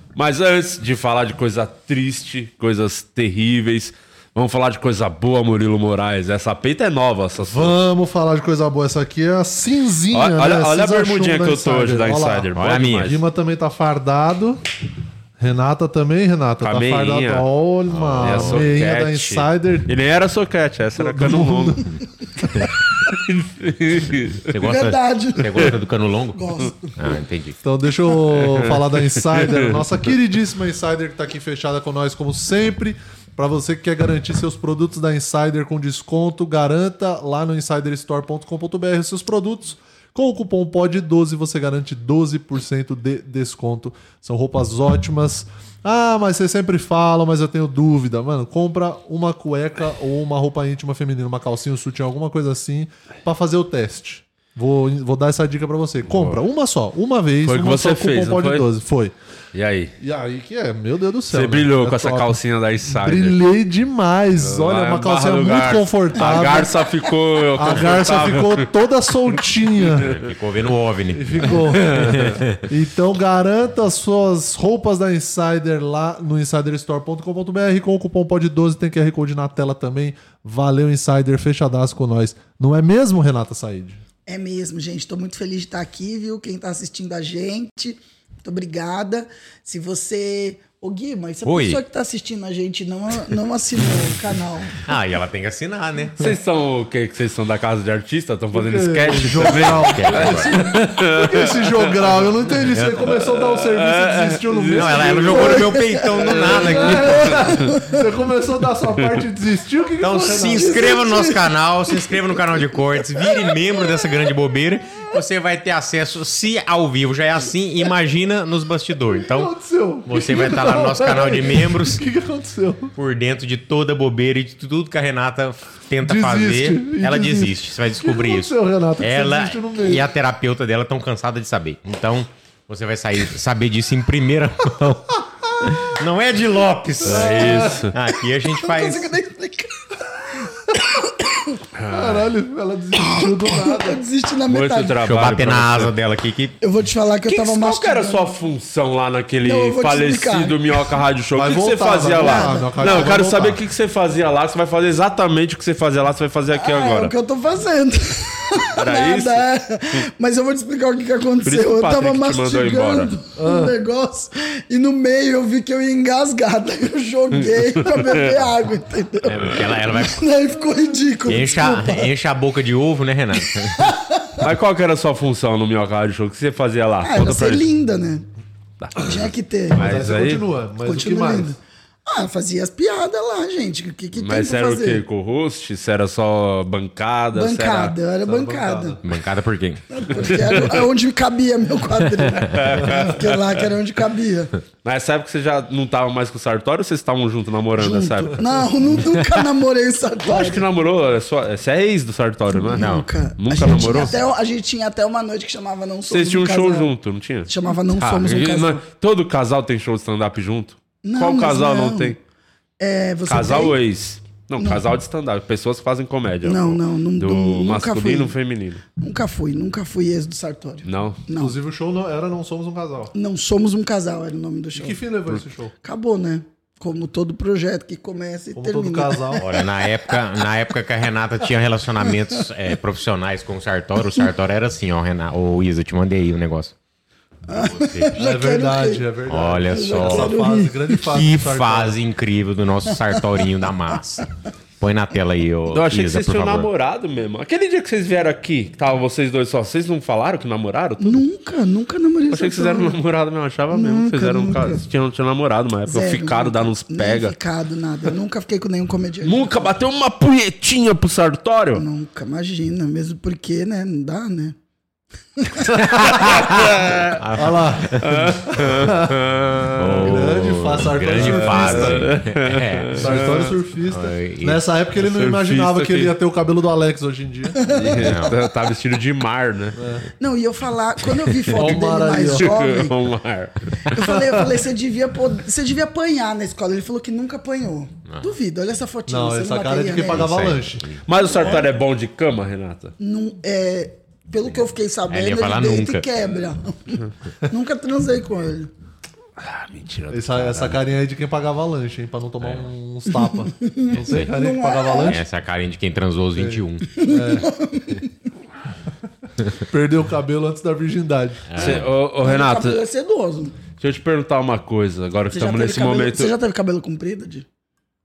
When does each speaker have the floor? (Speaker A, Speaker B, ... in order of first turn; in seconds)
Speaker A: 0.1-7.8, 10.1-13.2, 16.6-17.5, 18.2-21.9, 23.1-24.7, 28.3-29.8, 56.1-56.4, 57.4-58.7, 59.5-60.0, 61.3-63.4, 64.4-68.7, 69.3-70.2, 71.5-72.5, 96.2-105.6, 106.2-107.5, 109.0-109.2, 137.0-137.9, 141.7-142.3, 144.5-145.9, 147.3-157.1, 158.7-159.4, 161.4-163.2, 167.5-168.4, 174.4-177.7, 178.8-180.4, 184.1-188.0, 190.2-190.8, 192.5-193.4, 194.8-198.4, 200.3-204.2, 206.1-212.2, 213.3-218.8, 220.8-221.2, 245.7-251.2, 252.3-257.4, 259.2-261.8, 266.2-267.2, 267.9-270.4, 271.1-273.6, 275.0-276.1, 277.7-279.8, 282.3-283.9, 291.1-293.0, 299.4-300.8, 311.6-312.8, 313.8-316.4
Speaker B: 7.4-14.6, 15.4-19.9, 21.0-21.9, 27.6-59.1, 60.0-66.8, 67.5-70.2, 71.1-84.0, 98.5-105.6, 106.3-110.9, 119.2-122.9, 126.0-130.1, 137.0-137.8, 141.9-144.0, 151.3-153.6, 163.4-163.8, 179.7-181.6, 188.2-189.0, 221.4-223.1, 224.7-225.8, 228.5-229.5, 238.2-242.0, 267.4-269.2, 270.0-272.2, 273.0-277.7, 279.8-280.1, 281.5-282.5, 284.0-284.6, 289.1-290.9, 300.1-305.2, 306.4-307.5, 309.6-311.5
Speaker C: 12.6-13.2, 17.9-18.8, 24.5-27.6, 70.0-72.7, 91.4-91.8, 94.8-96.3, 99.8-100.5, 102.7-103.2, 104.7-107.6, 110.0-119.5, 120.1-122.1, 123.0-139.2, 145.0-146.6, 169.2-170.3, 171.3-173.9, 189.0-189.8, 202.8-203.1, 229.4-236.7, 237.5-238.1, 239.3-244.3, 244.8-246.7, 265.8-268.1, 269.8-274.6, 277.9-278.4, 288.1-288.3, 290.0-291.6, 295.1-296.1, 302.4-302.7, 303.9-304.3, 305.1-307.1, 311.5-311.9
Speaker D: 24.6-27.2, 84.3-94.8, 105.3-106.4, 107.4-108.1, 110.5-113.6, 138.5-141.6, 142.9-145.0, 146.6-148.3, 149.4-150.6, 152.0-153.2, 156.5-172.1, 173.5-174.4, 177.0-178.3, 179.0-179.8, 180.8-185.0, 187.3-189.0, 189.9-194.6, 197.8-200.7, 202.5-206.9, 207.5-208.8, 211.0-212.2, 212.8-213.8, 214.6-214.8, 216.4-218.4, 219.0-221.6, 223.1-225.0, 225.8-229.6, 237.5-239.1, 239.7-240.9, 251.0-253.0, 253.7-254.8, 255.9-259.7, 261.8-264.6, 265.4-266.1, 277.6-278.4, 280.2-283.0, 283.9-290.5, 291.1-291.7, 293.0-298.7, 303.1-305.2, 307.0-308.1, 312.2-313.6, 315.3-317.5